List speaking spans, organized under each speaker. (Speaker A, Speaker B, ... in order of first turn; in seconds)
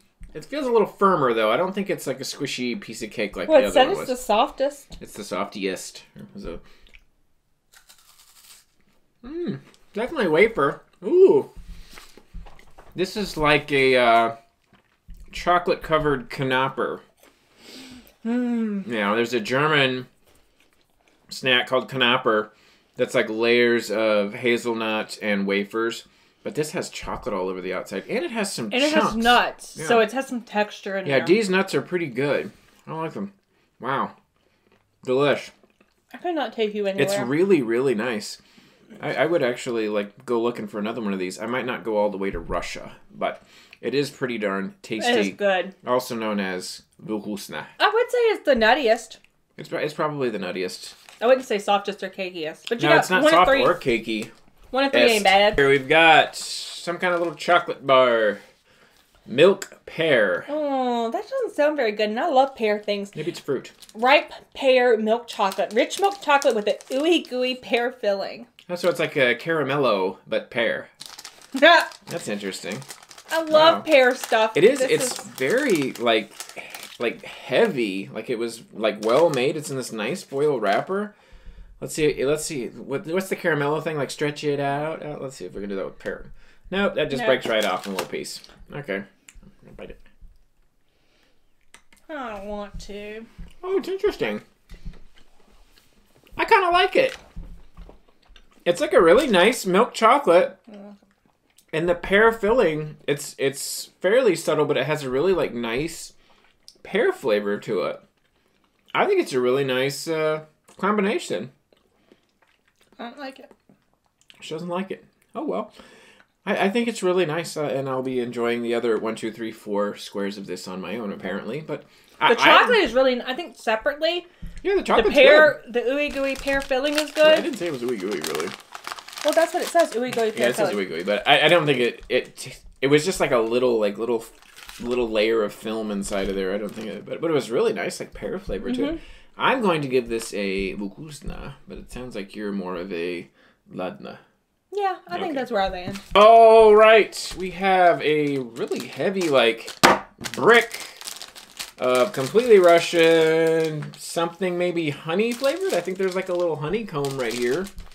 Speaker A: 0.3-4.2, 5.0-6.6, 9.2-11.5, 12.9-14.3, 15.3-17.0, 18.8-20.1, 21.3-30.0, 31.0-34.1, 35.0-35.5, 37.0-38.4, 39.0-47.7, 49.6-51.0, 52.8-54.3, 54.9-58.4, 59.3-60.5, 63.1-63.7, 68.7-70.9, 72.1-72.8, 73.5-73.9, 74.5-81.1, 81.8-89.0, 89.6-90.0, 93.6-94.4, 96.4-97.2, 98.6-100.6, 101.7-106.1, 106.8-108.0, 108.9-111.5, 114.4-115.7, 116.4-122.8, 124.6-125.6, 127.2-128.5, 130.1-144.2, 145.1-145.4, 146.1-151.0, 151.8-157.7
Speaker B: 3.5-4.9, 18.2-18.8, 28.7-31.4, 36.1-37.3, 45.0-45.7, 47.8-49.2, 51.2-53.8, 54.7-55.6, 60.5-63.1, 63.9-68.5, 71.5-71.9, 73.3-75.2, 87.1-87.4, 92.1-93.3, 113.0-113.5, 122.2-124.3, 124.9-127.5, 129.2-130.8, 138.7-139.0, 144.7-146.0